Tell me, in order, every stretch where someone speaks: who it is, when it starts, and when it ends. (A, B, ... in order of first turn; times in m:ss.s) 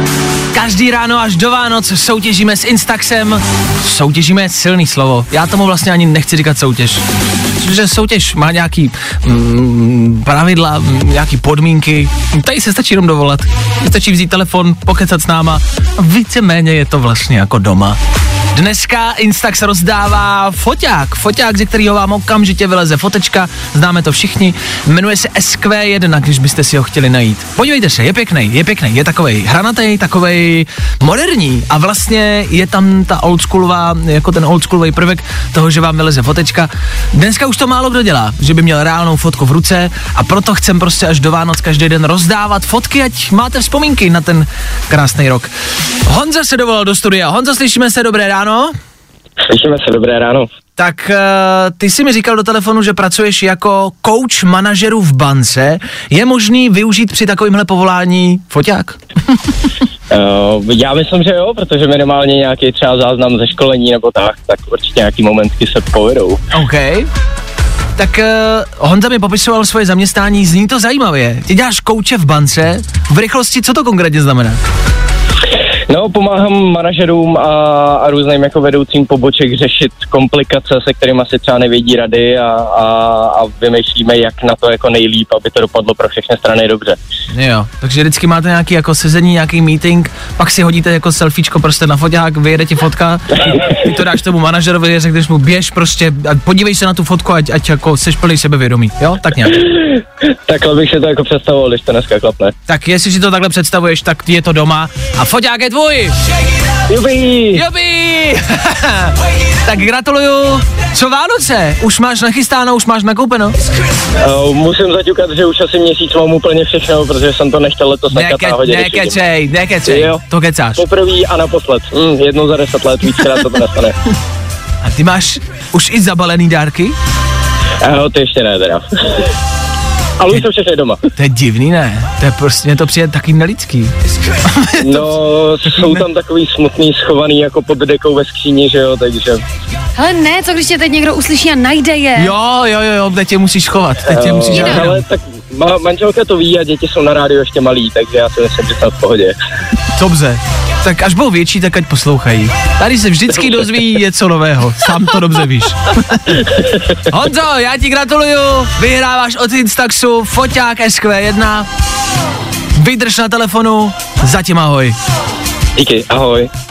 0:00.5-0:07.0 A
0:07.6-0:18.0 A
0:18.5-0:45.5 A
0:46.0-0:48.7 A
0:49.5-0:50.5 B
0:50.8-0:59.4 A
1:00.1-1:06.4 B
1:06.5-1:07.1 A
1:08.0-1:14.6 A
1:15.9-1:27.0 B
1:27.3-1:39.6 A
1:40.5-1:42.5 B
1:42.7-1:46.1 A
1:46.9-1:47.6 B
1:47.5-1:53.6 A
1:54.2-1:59.2 B
1:58.1-2:00.8 A
1:59.8-2:00.2 B
2:00.8-2:03.9 B
2:04.8-2:07.0 A
2:07.8-2:08.8 B
2:10.2-2:11.0 B
2:11.1-2:15.1 A
2:14.8-2:19.4 B
2:15.7-2:16.0 A
2:20.0-2:22.3 C
2:22.2-2:25.0 A
2:24.0-2:29.3 B
2:24.5-2:24.8 C
2:29.9-2:36.3 A
2:33.3-2:33.6 B
2:37.0-2:41.7 A
2:42.8-2:45.0 A
2:45.8-2:46.5 B